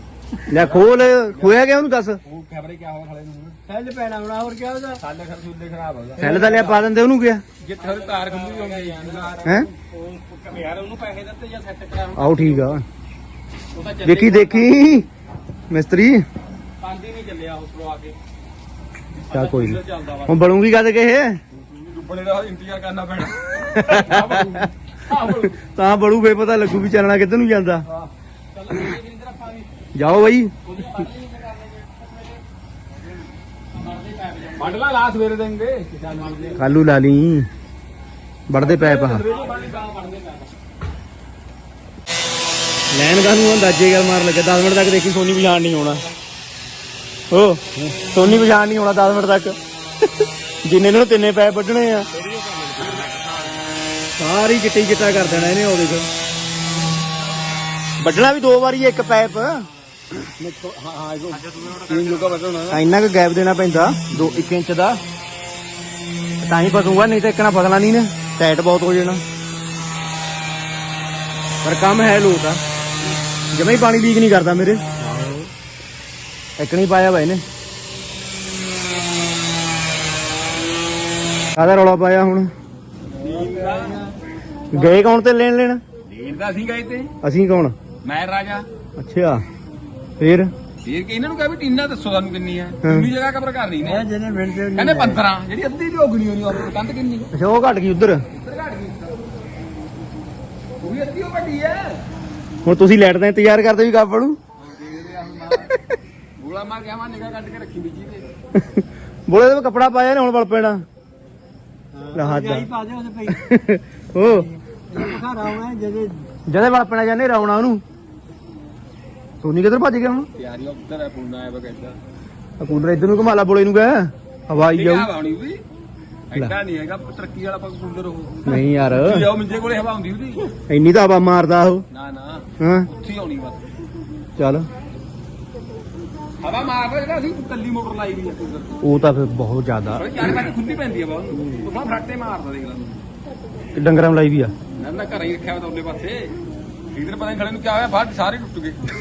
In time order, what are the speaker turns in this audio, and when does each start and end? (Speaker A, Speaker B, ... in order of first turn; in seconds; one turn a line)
Speaker A: 0.5-2.2
Speaker B: 0.5-1.6
Speaker B: 2.2-3.6
Speaker C: 3.7-5.0
Speaker B: 4.9-6.6
Speaker A: 6.2-7.4
Speaker C: 6.2-6.8
Speaker B: 7.6-9.7
Speaker D: 7.8-12.8
Speaker A: 9.4-9.7
Speaker A: 12.1-12.8
Speaker D: 13.7-15.0
Speaker A: 14.0-15.1
Speaker A: 15.7-16.2
Speaker D: 16.8-18.1
Speaker A: 19.3-21.4
Speaker D: 19.3-20.2
Speaker B: 21.5-24.7
Speaker A: 23.6-24.6
Speaker D: 24.0-25.5
Speaker A: 25.2-27.9
Speaker D: 28.5-29.8
Speaker A: 29.9-30.5
Speaker D: 30.6-32.4
Speaker D: 33.7-34.8
Speaker B: 34.5-36.6
Speaker D: 36.2-36.6
Speaker A: 36.5-37.5
Speaker A: 38.5-39.2
Speaker B: 38.5-39.9
Speaker D: 39.2-40.5
Speaker A: 42.9-46.0
Speaker A: 47.3-49.6
Speaker A: 50.6-52.1
Speaker C: 52.1-53.6
Speaker A: 54.2-56.1
Speaker A: 58.0-59.6
Speaker B: 60.4-62.8
Speaker C: 61.3-62.4
Speaker A: 62.7-65.0
Speaker A: 66.4-69.2
Speaker A: 71.6-72.6
Speaker A: 73.5-75.5
Speaker A: 76.6-77.4
Speaker A: 81.5-82.5
Speaker C: 83.1-84.2
Speaker B: 83.2-84.0
Speaker A: 84.7-85.8
Speaker B: 86.2-87.1
Speaker A: 87.2-87.7
Speaker B: 88.0-88.7
Speaker A: 89.0-89.4
Speaker A: 90.2-90.5
Speaker B: 90.8-94.0
Speaker A: 92.8-93.1
Speaker C: 93.8-95.2
Speaker B: 94.7-97.3
Speaker A: 97.3-98.2
Speaker B: 98.3-99.2
Speaker B: 100.8-102.1
Speaker A: 102.6-104.4
Speaker B: 104.6-105.8
Speaker B: 106.4-108.2
Speaker A: 108.5-110.8
Speaker C: 111.9-113.4
Speaker A: 112.1-112.7
Speaker A: 113.3-114.5
Speaker C: 114.2-116.3
Speaker A: 116.5-117.8
Speaker A: 119.4-120.3
Speaker B: 120.4-122.0
Speaker A: 122.6-125.1
Speaker B: 124.7-125.6
Speaker B: 126.3-130.5
Speaker A: 128.4-129.2
Speaker A: 130.7-131.8
Speaker B: 131.9-133.7
Speaker A: 132.6-132.9
Speaker A: 134.4-134.7
Speaker B: 136.4-138.8
Speaker A: 138.8-140.1
Speaker B: 139.9-143.0
Speaker A: 143.8-144.5
Speaker B: 144.8-146.3
Speaker B: 146.9-148.8